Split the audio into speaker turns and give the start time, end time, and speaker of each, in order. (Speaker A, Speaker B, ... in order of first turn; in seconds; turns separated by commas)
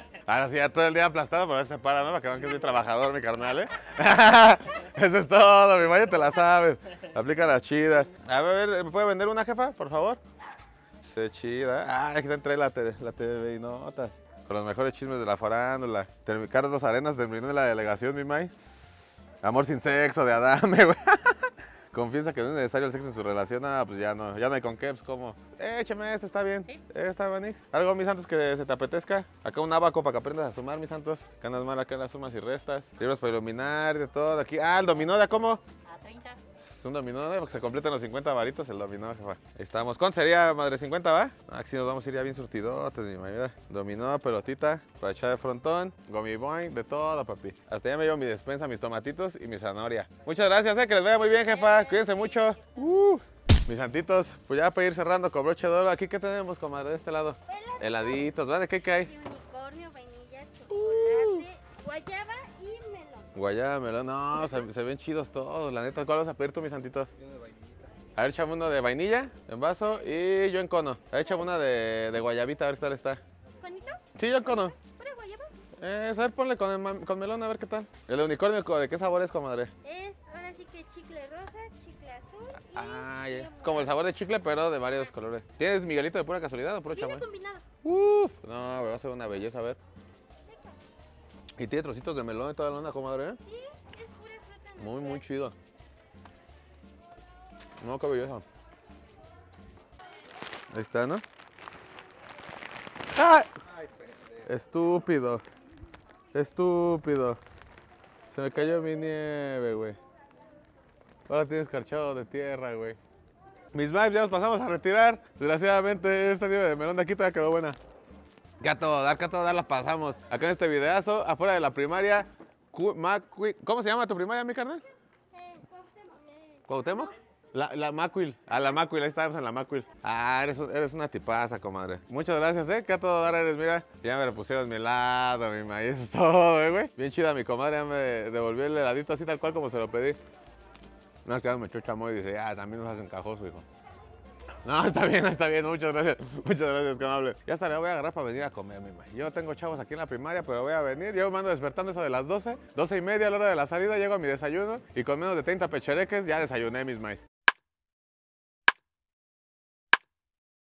Speaker A: 0.2-10.2, Speaker A: 11.0-35.6, Speaker B: 35.9-36.4, Speaker A: 36.6-59.1, Speaker B: 51.2-52.8, Speaker B: 57.5-58.1, Speaker B: 58.9-63.3, Speaker A: 60.7-61.5, Speaker A: 63.4-67.1, Speaker A: 68.2-73.2, Speaker B: 73.6-75.5, Speaker A: 74.2-74.8, Speaker A: 75.8-79.7, Speaker B: 79.8-84.0, Speaker A: 82.6-87.2, Speaker B: 86.9-87.7, Speaker A: 87.8-89.8, Speaker B: 90.5-90.8, Speaker A: 91.6-93.4, Speaker B: 93.5-95.2, Speaker A: 94.8-95.5, Speaker A: 97.8-98.4, Speaker A: 100.7-101.2, Speaker A: 103.2-103.5, Speaker A: 104.4-105.4, Speaker A: 106.3-107.4, Speaker A: 108.3-110.0, Speaker A: 111.3-113.0, Speaker A: 113.7-117.8, Speaker A: 118.6-124.8, Speaker A: 126.7-140.2, Speaker A: 141.2-143.7, Speaker A: 144.6-157.2